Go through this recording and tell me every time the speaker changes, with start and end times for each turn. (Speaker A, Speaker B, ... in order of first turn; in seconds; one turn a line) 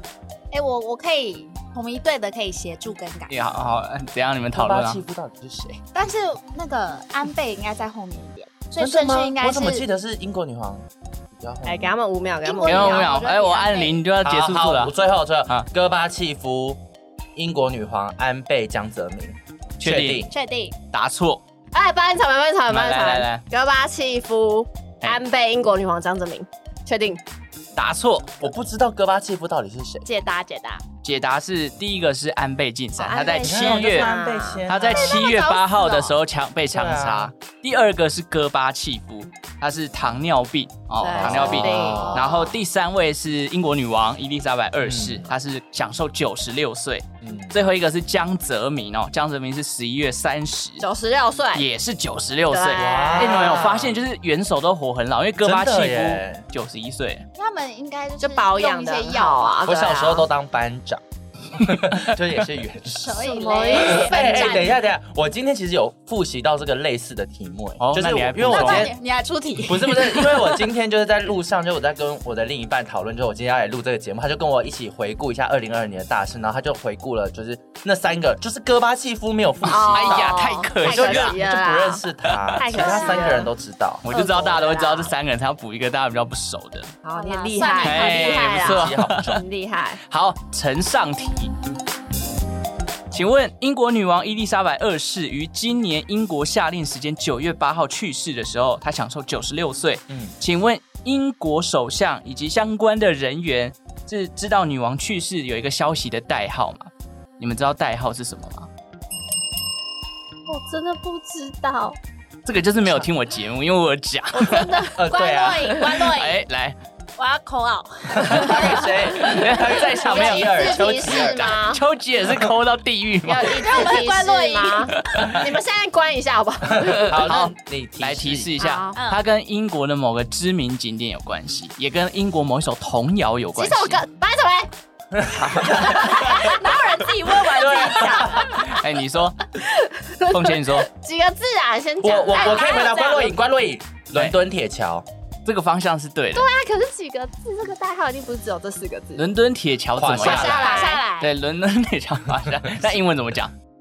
Speaker A: 0.5-3.5
Speaker B: 3.3-5.0
Speaker C: 4.5-5.8
Speaker A: 5.9-9.9
Speaker C: 8.8-11.9
Speaker D: 11.7-13.1
Speaker A: 12.4-14.0
Speaker B: 12.6-14.9
Speaker C: 14.2-16.8
Speaker C: 17.4-20.3
Speaker B: 19.8-20.3
Speaker A: 20.3-20.8
Speaker B: 20.9-21.4
Speaker D: 21.7-27.2
Speaker B: 22.7-23.4
Speaker B: 27.8-28.5
Speaker C: 28.4-30.1
Speaker D: 30.1-30.8
Speaker A: 30.2-30.8
Speaker B: 31.0-34.1
Speaker D: 33.0-34.6
Speaker A: 33.1-33.6
Speaker C: 33.4-35.2
Speaker B: 34.7-50.9
Speaker A: 35.0-36.2
Speaker C: 36.7-37.3
Speaker D: 41.0-42.2
Speaker C: 41.1-42.6
Speaker C: 44.8-45.3
Speaker C: 47.2-47.6
Speaker D: 50.8-51.7
Speaker B: 51.5-57.3
Speaker D: 52.5-53.6
Speaker C: 52.8-54.0
Speaker C: 55.4-56.5
Speaker A: 57.4-59.6
Speaker D: 58.2-60.3
Speaker C: 59.7-61.0
Speaker C: 61.5-68.9
Speaker A: 62.9-64.8
Speaker D: 63.2-64.7
Speaker B: 67.8-68.9
Speaker A: 68.5-70.6
Speaker C: 69.7-84.0
Speaker D: 79.7-82.0
Speaker B: 79.9-81.4
Speaker B: 82.3-82.6
Speaker D: 82.6-83.5
Speaker A: 82.9-83.2
Speaker B: 84.0-87.0
Speaker D: 84.1-85.1
Speaker D: 87.0-90.0
Speaker A: 87.1-88.6
Speaker B: 87.8-89.4
Speaker C: 88.5-89.4
Speaker B: 90.1-91.5
Speaker B: 93.1-108.7
Speaker C: 100.1-100.3
Speaker D: 110.5-112.0
Speaker B: 112.5-114.8
Speaker D: 114.3-116.1
Speaker A: 114.5-116.4
Speaker C: 115.0-115.8
Speaker B: 116.0-116.8
Speaker A: 117.2-119.5
Speaker C: 118.1-121.5
Speaker B: 119.2-120.7
Speaker D: 120.0-121.8
Speaker A: 120.6-121.5
Speaker B: 121.6-123.9
Speaker D: 123.2-127.5
Speaker A: 123.6-124.9
Speaker B: 125.1-125.4
Speaker C: 126.7-128.5
Speaker B: 127.1-134.0
Speaker D: 128.6-129.0
Speaker A: 128.9-129.2
Speaker D: 133.6-134.7
Speaker C: 135.1-136.6
Speaker B: 135.4-135.9
Speaker A: 135.9-138.6
Speaker D: 136.1-136.6
Speaker C: 137.5-138.6
Speaker B: 138.5-139.4
Speaker D: 139.7-143.3
Speaker B: 140.3-140.9
Speaker C: 142.0-145.1
Speaker A: 142.3-143.4
Speaker B: 145.4-146.5
Speaker D: 146.3-149.3
Speaker B: 149.2-153.5
Speaker C: 150.0-150.7
Speaker D: 150.2-151.3
Speaker A: 150.2-151.2